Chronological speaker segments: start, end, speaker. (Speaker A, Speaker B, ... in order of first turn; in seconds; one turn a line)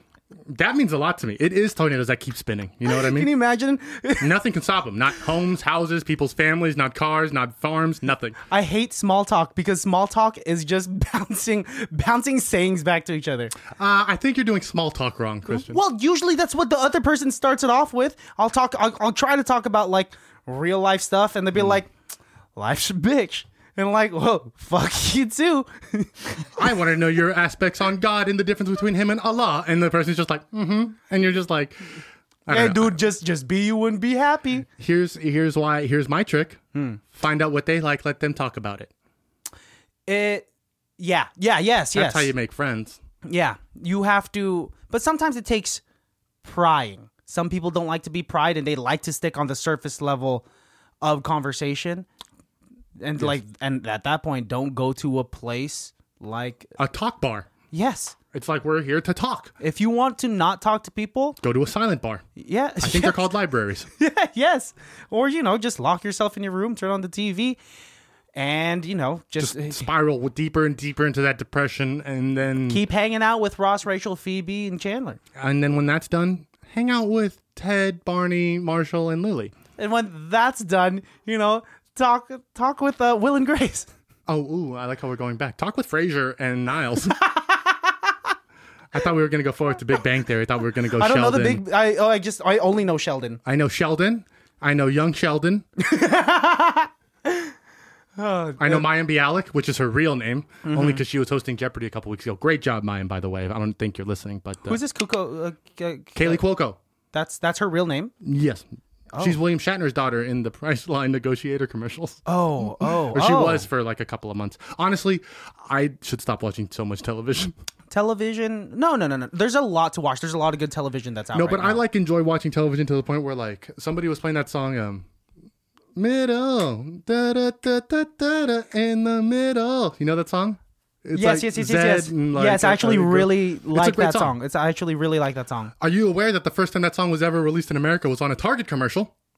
Speaker A: 0.5-3.3
Speaker B: 2.9-4.3
Speaker A: 4.2-8.4
Speaker B: 8.5-13.6
Speaker A: 13.7-15.8
Speaker B: 15.5-21.9
Speaker B: 22.6-26.5
Speaker A: 26.5-33.0
Speaker B: 32.5-34.7
Speaker A: 34.7-38.9
Speaker B: 36.7-37.0
Speaker B: 40.1-40.5
Speaker B: 41.0-42.3
Speaker A: 41.9-43.0
Speaker B: 43.2-45.8
Speaker B: 46.4-50.5
Speaker B: 51.0-52.1
Speaker B: 53.0-56.7
Speaker A: 56.8-57.5
Speaker B: 57.7-58.1
Speaker A: 58.3-59.5
Speaker B: 59.6-61.4
Speaker A: 61.4-62.2
Speaker B: 62.4-63.2
Speaker A: 62.8-63.9
Speaker B: 64.0-67.6
Speaker B: 68.3-69.9
Speaker A: 69.4-72.8
Speaker B: 72.7-75.2
Speaker A: 75.3-79.5
Speaker B: 79.8-83.9
Speaker A: 84.3-87.2
Speaker B: 87.1-88.1
Speaker A: 88.9-91.6
Speaker B: 91.0-93.4
Speaker A: 93.5-95.6
Speaker B: 95.8-97.5
Speaker B: 98.2-98.9
Speaker A: 98.6-104.8
Speaker B: 100.6-101.0
Speaker B: 104.7-106.4
Speaker A: 106.2-106.8
Speaker B: 107.1-108.1
Speaker A: 108.2-108.7
Speaker B: 109.1-109.4
Speaker A: 109.2-117.5
Speaker B: 112.3-113.7
Speaker B: 117.9-121.8
Speaker A: 121.3-125.0
Speaker A: 125.9-134.3
Speaker B: 131.2-135.7
Speaker A: 135.8-139.1